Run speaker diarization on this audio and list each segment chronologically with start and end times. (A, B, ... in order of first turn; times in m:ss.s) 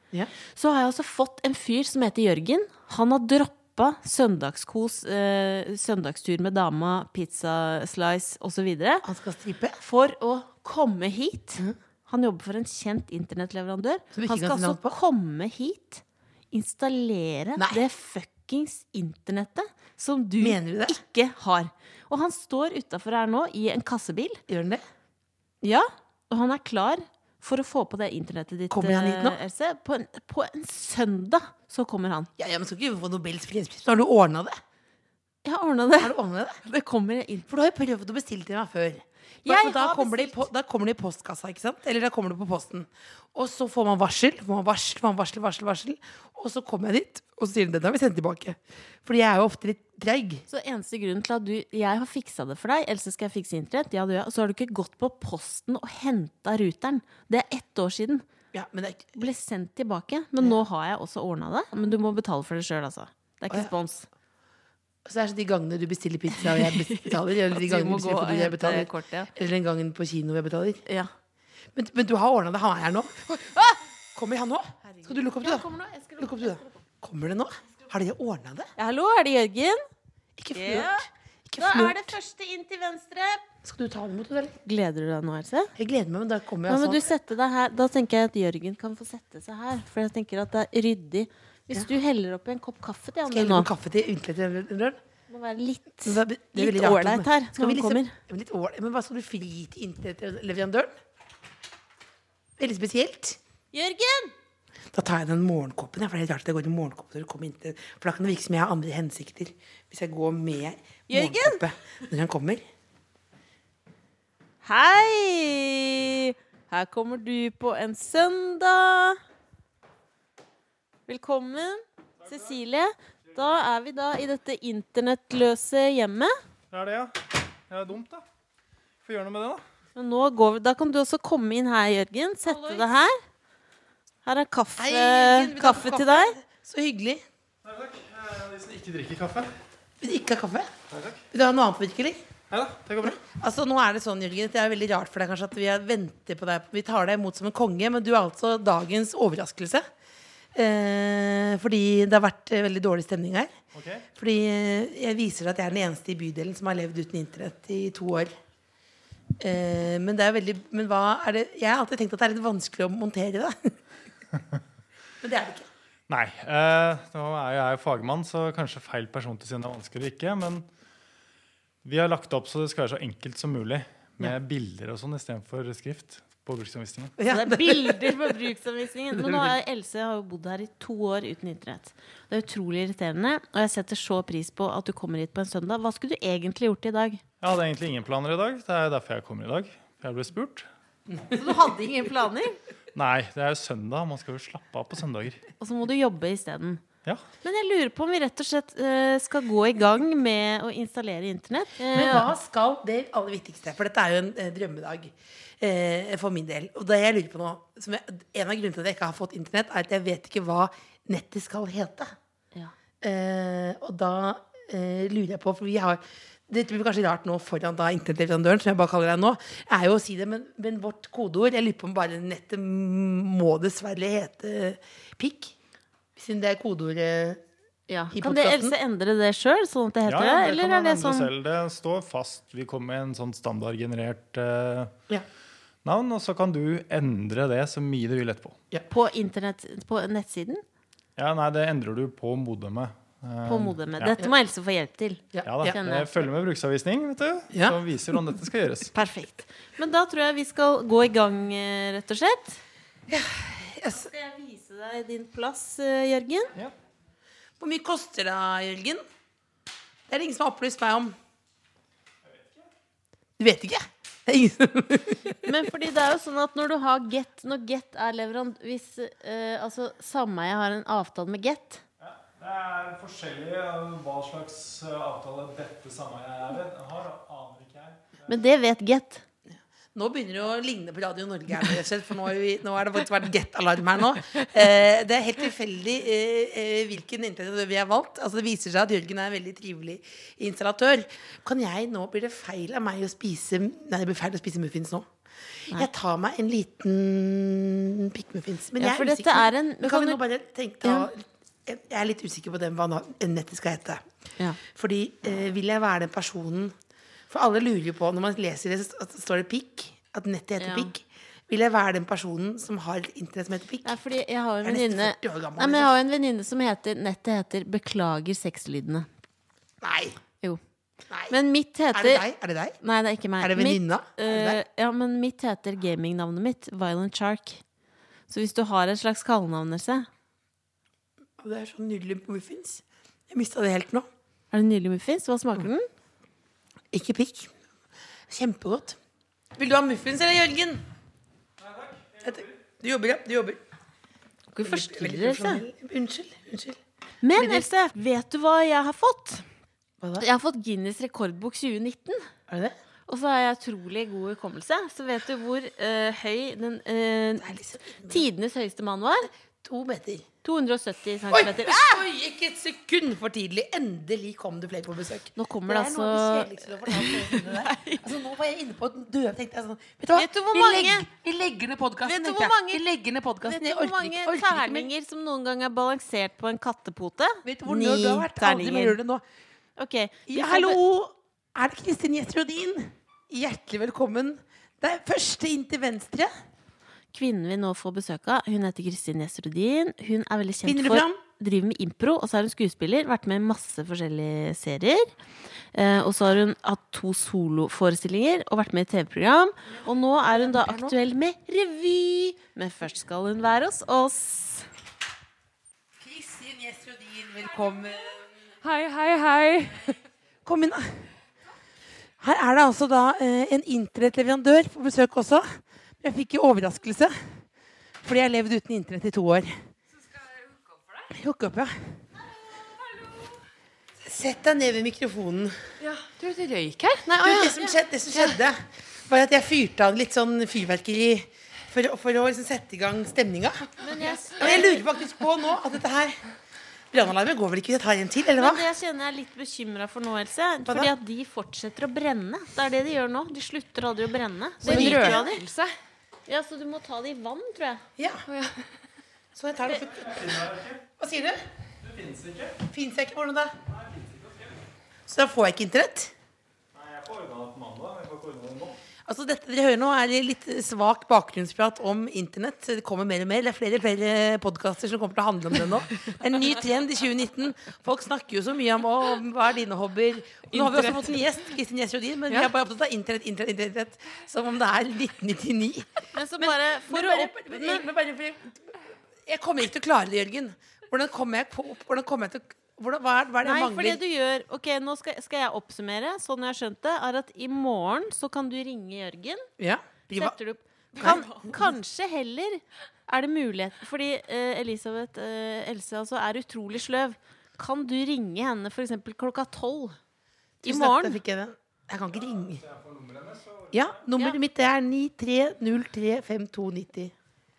0:00.6-0:09.1 A
0:09.0-0:09.8 B
0:09.8-0:24.4 A
0:14.1-0:15.0 B
0:17.6-0:17.8 B
0:20.4-0:21.0 B
0:24.5-0:24.8 B
0:25.6-0:32.3 A
0:28.7-0:29.4 B
0:32.4-0:34.6 B
0:35.4-0:37.5 A
0:36.0-0:36.6 B
0:37.5-0:50.4 B
0:39.4-0:40.4 A
0:50.5-0:58.2 A
0:58.5-0:59.2 B
0:59.2-1:04.1 A
1:05.0-1:10.8 B
1:06.5-1:09.3 A
1:11.7-1:15.7 B
1:14.8-1:16.8 A
1:16.2-1:18.7 B
1:18.8-1:19.8 A
1:20.4-1:22.2 B
1:20.5-1:21.1 A
1:21.6-1:23.4 A
1:23.6-1:24.6 B
1:24.6-1:25.7 A
1:25.8-1:27.0 B
1:26.7-1:33.7 A
1:33.3-1:35.0 B
1:35.3-1:38.1 A
1:36.0-1:40.9 B
1:42.6-1:43.4 B
1:43.7-1:44.3 A
1:44.9-1:52.6 B
1:51.1-1:51.6 A
1:54.6-1:59.2 A
2:01.1-2:06.3 A
2:06.7-2:08.2 C
2:09.0-2:09.6 C
2:10.0-2:13.2 A
2:12.4-2:12.9 B
2:14.2-2:16.4 A
2:14.8-2:17.2 B
2:17.6-2:19.5 C
2:20.0-2:20.7 B
2:20.9-2:21.2 C
2:21.3-2:22.2 B
2:22.5-2:23.2 C
2:23.0-2:29.8 B
2:30.5-2:33.5 B
2:33.7-2:34.0 C
2:34.2-2:38.3 B
2:39.4-2:43.8 B
2:45.2-2:45.7 B
2:46.1-2:50.7 C
2:51.8-2:57.2 C
2:57.2-2:58.4 B
2:57.3-3:07.2 A
2:59.1-2:59.6 B
3:07.4-3:10.7 C
3:11.2-3:11.6 B
3:11.3-3:12.6 A
3:13.0-3:15.4 C
3:15.6-3:16.8 A
3:17.4-3:22.3 A
3:21.9-3:32.1 B
3:33.0-3:45.6 B
3:46.2-3:47.4 B
3:47.9-3:51.3 A
3:48.1-3:48.8 B
3:50.1-3:54.9 C
3:55.8-3:58.6 C
3:58.9-4:00.6 A
4:01.2-4:04.2 C
4:03.5-4:06.2 A
4:05.3-4:05.8 B
4:05.4-4:08.9 C
4:07.5-4:07.8 B
4:08.9-4:12.6 A
4:13.1-4:14.1 B
4:13.9-4:16.5 A
4:17.6-4:19.0 B
4:20.1-4:21.2 B
4:22.2-4:22.7 C
4:23.4-4:25.4 B
4:25.4-4:31.8 A
4:32.0-4:38.3 C
4:38.3-4:39.2 A
4:39.5-4:55.1 B
4:55.7-5:04.0 B
4:58.8-5:00.2 A
5:04.7-5:06.7 B
5:07.3-5:14.0 B
5:10.6-5:10.9 A
5:13.8-5:19.1 A
5:14.6-5:15.9 B
5:19.8-5:20.2 B
5:21.1-5:21.4 B
5:21.3-5:22.3 A
5:21.9-5:22.8 B
5:22.8-5:27.6 A
5:23.4-5:24.6 B
5:28.3-5:30.1 A
5:31.4-5:34.1 B
5:34.5-5:35.9 A
5:36.9-5:37.5 B
5:38.3-5:39.0 B
5:39.6-5:40.8 B
5:41.6-5:42.5 C
5:42.2-5:43.6 B
5:44.5-5:45.6 A
5:44.6-5:46.8 B
5:47.2-5:49.5 A
5:47.3-5:47.7 B
5:50.2-5:52.3 A
5:52.5-5:52.8 B
5:53.1-5:57.6 A
5:57.4-5:58.2 B
5:58.1-5:59.3 A
5:59.6-6:00.3 B
6:00.4-6:02.0 A
6:01.3-6:14.9 B
6:05.4-6:08.1 A
6:10.1-6:11.1 A
6:12.0-6:12.8 A
6:13.4-6:19.0 A
6:17.4-6:19.2 B
6:19.8-6:21.0 A
6:20.3-6:26.3 B
6:27.1-6:35.1 A
6:30.6-6:31.2 B
6:35.7-6:44.7 A
6:40.3-6:41.0 B
6:46.0-6:48.3 B
6:48.6-6:50.0 D
6:50.4-6:51.0 B
6:52.2-6:57.4 B
6:58.0-6:59.6 B
7:01.1-7:02.0 B
7:04.0-7:05.6 B
7:05.8-7:08.4 D
7:07.1-7:16.2 B
7:13.8-7:14.8 A
7:16.9-7:18.7 B
7:18.4-7:25.4 A
7:20.7-7:20.9 B
7:24.6-7:25.3 B
7:24.6-7:25.7 D
7:26.3-7:27.8 A
7:28.0-7:28.3 B
7:28.3-7:28.7 D
7:29.4-7:30.2 B
7:29.7-7:30.8 C
7:31.0-7:31.4 B
7:31.8-7:32.6 C
7:32.7-7:33.5 B
7:33.7-7:34.6 C
7:35.1-7:36.1 B
7:36.7-7:38.8 C
7:39.1-8:04.0 B
7:50.5-7:51.1 D
7:56.1-7:57.9 A
8:03.4-8:09.5 A
8:09.6-8:10.4 B
8:10.1-8:20.0 A
8:11.0-8:11.6 B
8:20.6-8:22.6 B
8:20.6-8:21.2 A
8:22.4-8:24.0 C
8:23.7-8:27.1 B